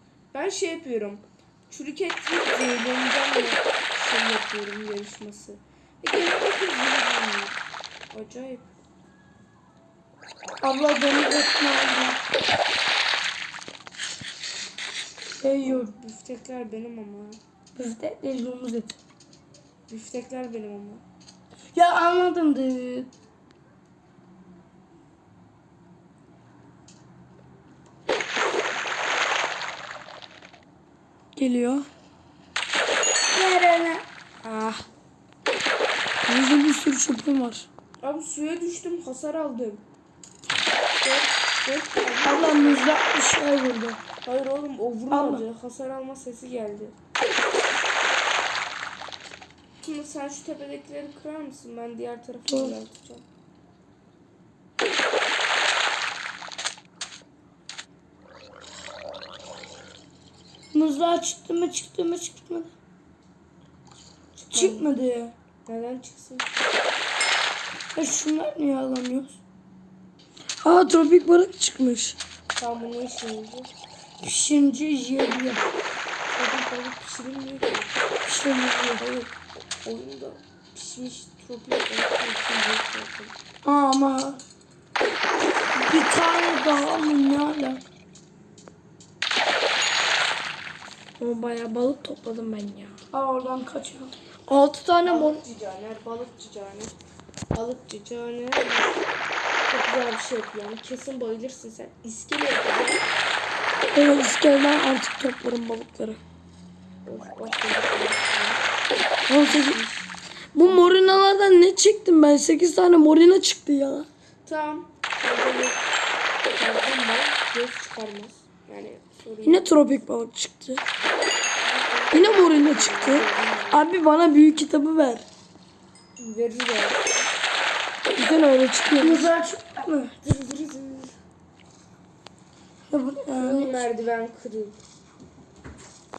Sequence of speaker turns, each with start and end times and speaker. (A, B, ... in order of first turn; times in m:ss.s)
0:00.3-0:07.6 A
0:08.1-0:08.7 A
0:10.6-0:12.2 B
0:15.4-0:15.9 B
0:15.6-0:17.4 A
0:17.8-0:19.0 B
0:19.9-0:21.0 A
0:21.7-0:23.1 B
0:31.4-0:31.9 C
0:33.3-0:34.0 B
0:34.4-0:34.9 A
0:36.3-0:37.7 C
0:38.0-0:39.8 A
0:41.0-0:43.0 A
0:42.2-0:44.0 B
0:44.2-0:46.9 A
0:45.1-0:45.4 B
0:49.8-0:53.2 A
0:52.5-0:52.8 B
1:00.7-1:02.7 B
1:04.5-1:05.3 B
1:04.5-1:04.9 A
1:05.6-1:06.7 A
1:07.9-1:09.4 B
1:10.6-1:12.2 C
1:12.6-1:13.7 A
1:14.2-1:15.6 B
1:16.3-1:17.9 A
1:18.2-1:19.0 B
1:19.0-1:19.3 A
1:19.8-1:23.3 A
1:23.6-1:24.4 B
1:25.7-1:27.8 B
1:31.2-1:33.0 C
1:33.1-1:34.1 B
1:34.5-1:35.4 C
1:35.0-1:36.9 A
1:37.5-1:38.9 A
1:39.7-1:43.1 A
1:43.9-1:46.2 C
1:47.0-1:48.6 A
1:49.3-1:49.8 C
1:49.4-1:51.2 A
1:50.5-1:54.1 C
1:54.4-1:55.8 A
1:56.5-1:59.9 A
1:59.4-2:00.8 C
2:01.6-2:03.8 A
2:02.1-2:05.2 C
2:06.2-2:07.3 A
2:08.1-2:09.3 C
2:09.0-2:10.2 B
2:10.2-2:11.2 A
2:12.9-2:13.9 B
2:13.3-2:14.8 A